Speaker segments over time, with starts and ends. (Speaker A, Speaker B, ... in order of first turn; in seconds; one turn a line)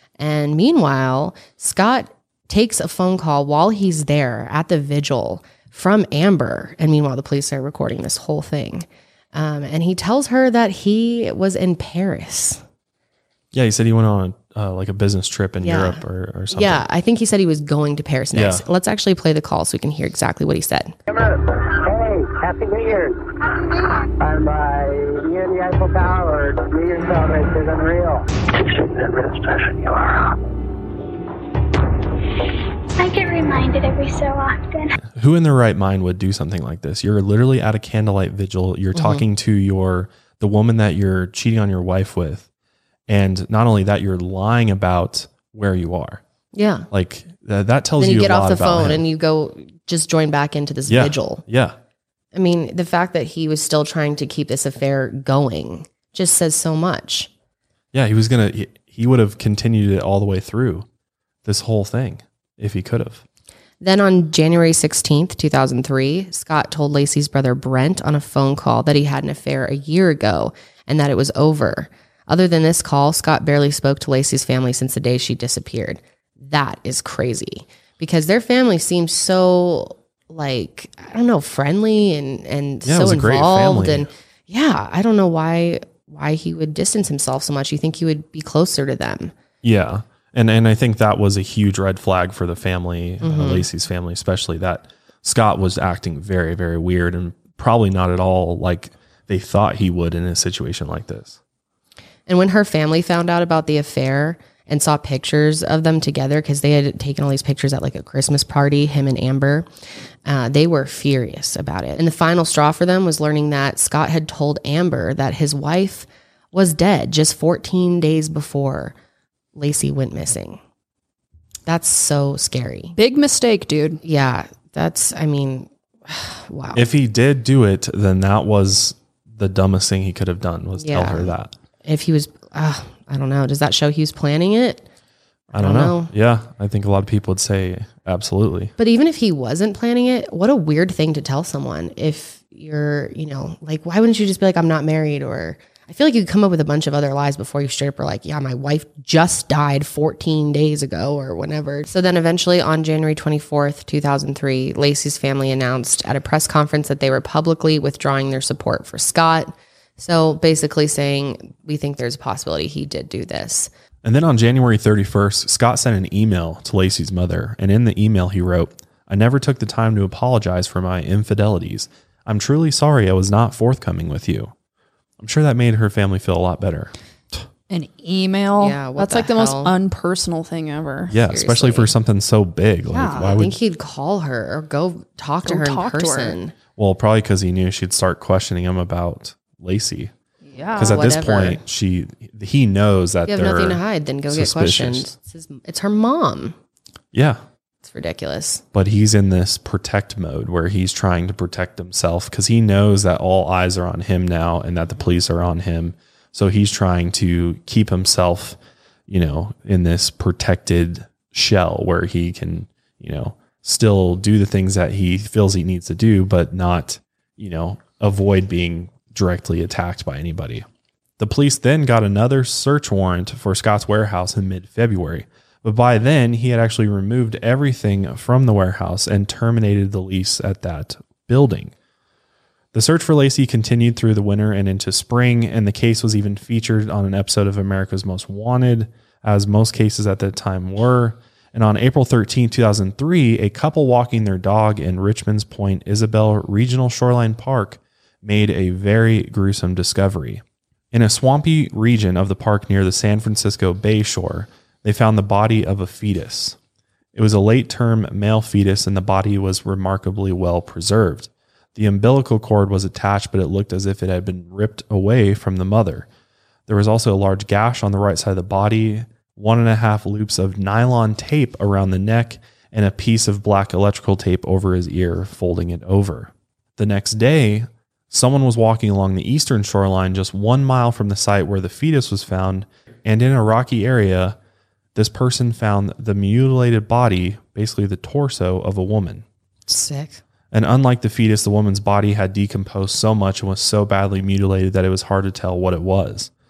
Speaker A: 0.2-12.6
Speaker B: 13.5-16.8
Speaker A: 15.6-16.0
Speaker A: 16.5-20.9
Speaker B: 18.3-18.6
Speaker C: 21.1-30.4
Speaker D: 33.0-34.9
Speaker B: 35.1-42.5
Speaker A: 38.9-39.2
Speaker B: 43.1-46.2
Speaker A: 46.5-46.9
Speaker B: 46.9-49.0
Speaker A: 48.0-51.4
Speaker B: 50.9-51.8
Speaker A: 52.3-57.3
Speaker B: 57.9-60.9
Speaker B: 61.4-63.2
Speaker A: 63.8-89.3
Speaker B: 82.8-84.1
Speaker B: 89.6-101.4
Speaker A: 93.2-93.7
Speaker A: 102.3-109.7
Speaker A: 110.2-118.9
Speaker A: 119.5-120.6
Speaker A: 121.7-122.9
Speaker E: 123.0-124.0
Speaker A: 124.0-126.8
Speaker B: 126.7-131.5
Speaker A: 130.8-131.3
Speaker A: 131.8-134.8
Speaker A: 135.5-136.1
Speaker B: 135.6-138.7
Speaker A: 138.8-163.7
Speaker B: 164.0-174.5
Speaker B: 175.2-177.4
Speaker E: 177.7-181.1
Speaker A: 178.6-179.7
Speaker B: 181.1-183.6
Speaker A: 181.3-181.9
Speaker A: 182.9-186.5
Speaker E: 185.4-186.4
Speaker B: 186.8-190.1
Speaker E: 190.5-191.0
Speaker A: 190.6-191.6
Speaker B: 190.8-195.1
Speaker A: 193.2-196.5
Speaker B: 197.1-197.4
Speaker A: 197.8-198.6
Speaker B: 198.7-220.7
Speaker B: 221.2-231.7
Speaker B: 232.7-256.6
Speaker B: 257.1-266.1
Speaker B: 266.7-284.4
Speaker B: 284.9-289.2
Speaker A: 289.7-290.2
Speaker B: 290.5-296.3